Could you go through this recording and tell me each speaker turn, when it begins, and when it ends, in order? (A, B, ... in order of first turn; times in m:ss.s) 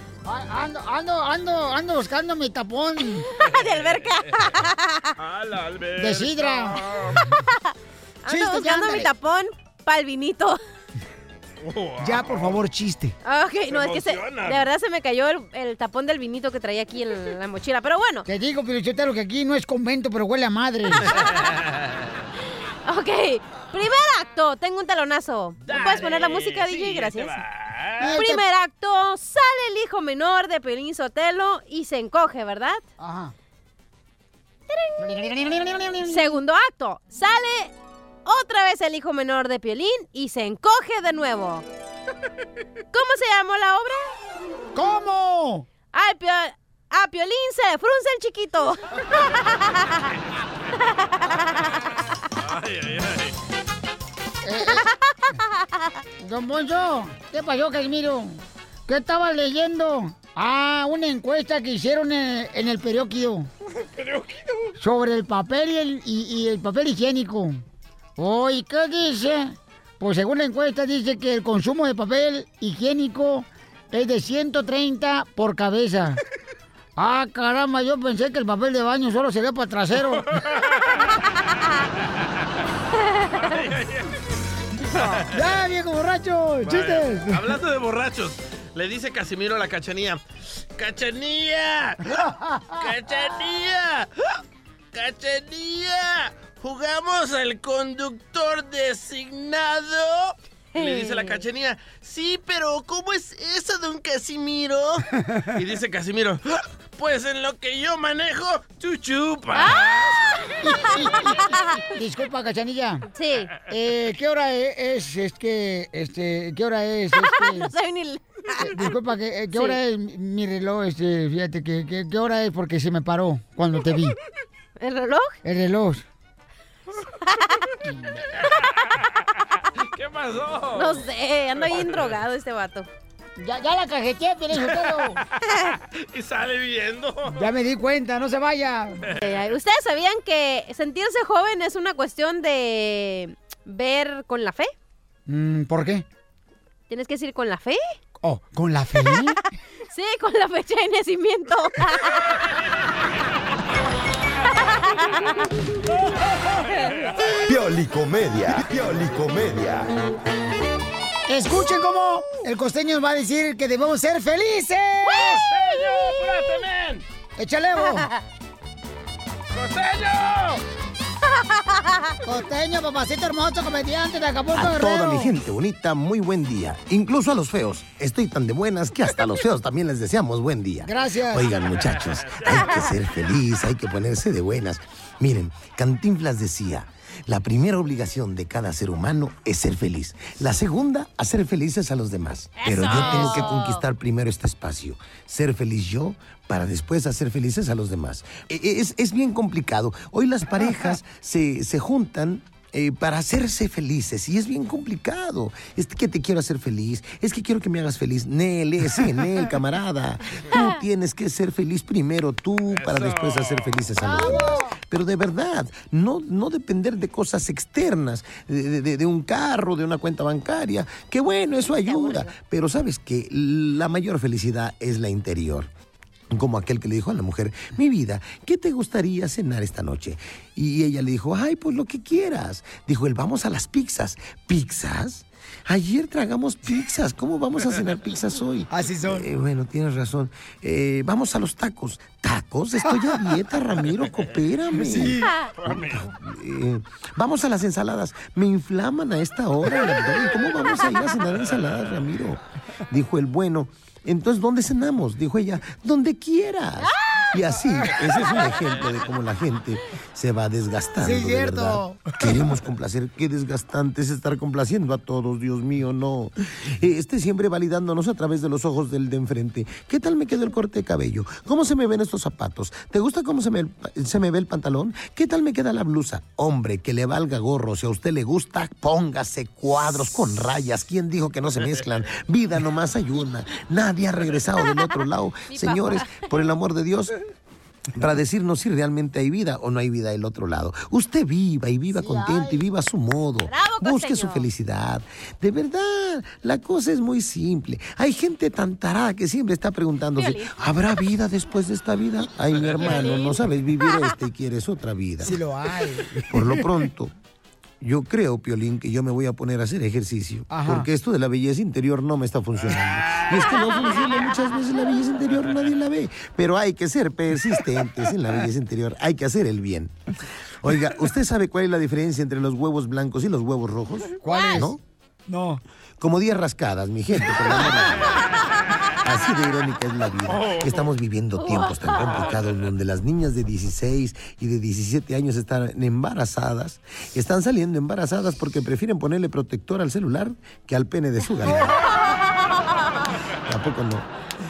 0:00.3-0:03.3 A
0:03.3-0:05.1 B
0:03.4-0:04.6 C
0:05.2-0:07.3 C
0:06.0-0:06.8 A
0:08.2-0:10.6 B
0:08.3-0:09.1 A
0:11.6-0:12.6 C
0:12.0-0:13.2 A
0:13.2-0:18.3 B
0:13.7-0:14.7 C
0:18.3-0:21.1 A
0:22.9-0:27.4 B
0:25.6-0:28.1 C
0:28.0-0:28.4 A
0:28.1-0:32.8 B
0:33.0-0:33.3 A
0:34.7-0:35.0 B
0:35.0-0:36.4 A
0:36.0-0:37.7 B
0:38.3-0:41.6 B
0:42.9-0:44.1 B
0:44.7-0:45.7 A
0:45.9-0:49.8 B
0:51.2-0:51.7 B
0:52.4-0:53.3 C
0:54.4-0:54.9 A
0:54.7-0:55.4 B
0:56.2-1:03.5 A
1:03.9-1:04.7 C
1:04.8-1:07.6 A
1:08.2-1:16.2 A
1:17.0-1:20.3 A
1:23.4-1:24.1 C
1:24.9-1:25.4 C
1:25.2-1:27.5 A
1:26.6-1:30.2 C
1:30.8-1:32.2 C
1:32.2-1:32.7 A
1:32.8-1:34.1 C
1:34.9-1:50.2 C
1:40.8-1:41.4 B
1:49.5-1:49.9 B
1:50.6-1:53.1 A
1:53.1-1:53.5 B
1:53.7-1:57.7 A
1:57.1-1:58.9 B
1:58.6-2:04.2 A
1:59.5-1:59.8 B
2:04.8-2:05.4 B
2:05.4-2:06.0 A
2:09.8-2:11.0 C
2:10.8-2:12.9 B
2:11.6-2:12.1 C
2:13.4-2:15.2 A
2:15.5-2:15.7 B
2:15.9-2:17.4 C
2:17.3-2:19.1 A
2:19.2-2:24.7 B
2:25.3-2:26.0 A
2:26.9-2:27.9 B
2:28.2-2:29.4 A
2:29.9-2:32.4 B
2:37.5-2:39.9 D
2:41.3-2:45.4 A
2:45.1-2:47.0 C
2:47.4-2:48.1 A
2:47.8-2:48.2 B
2:49.5-2:50.6 C
2:52.2-2:55.3 A
2:54.5-3:45.7 E
3:00.8-3:01.5 A
3:12.6-3:13.8 B
3:12.9-3:13.5 A
3:20.6-3:20.9 A
3:30.5-3:30.8 B
3:32.7-3:33.8 C
3:34.0-3:34.7 A
3:41.6-3:42.3 B
3:46.3-4:47.2 E
3:58.7-3:59.3 A
4:04.7-4:05.3 A
4:05.2-4:05.5 B
4:05.6-4:06.1 C
4:21.0-4:22.3 A
4:45.5-4:46.4 B
4:48.0-5:05.4 E
4:51.9-4:52.6 A
4:53.4-4:54.5 B
5:00.2-5:00.6 B
5:02.8-5:04.1 B
5:05.2-5:06.7 A
5:06.3-5:07.1 E
5:07.8-5:19.9 E
5:10.5-5:10.9 A
5:20.6-5:24.8 E
5:24.2-5:25.6 A
5:24.3-5:24.6 B
5:26.0-5:28.2 E
5:29.0-5:41.8 E
5:30.3-5:30.8 C
5:31.4-5:32.3 B
5:41.4-5:41.8 A
5:43.5-5:44.1 E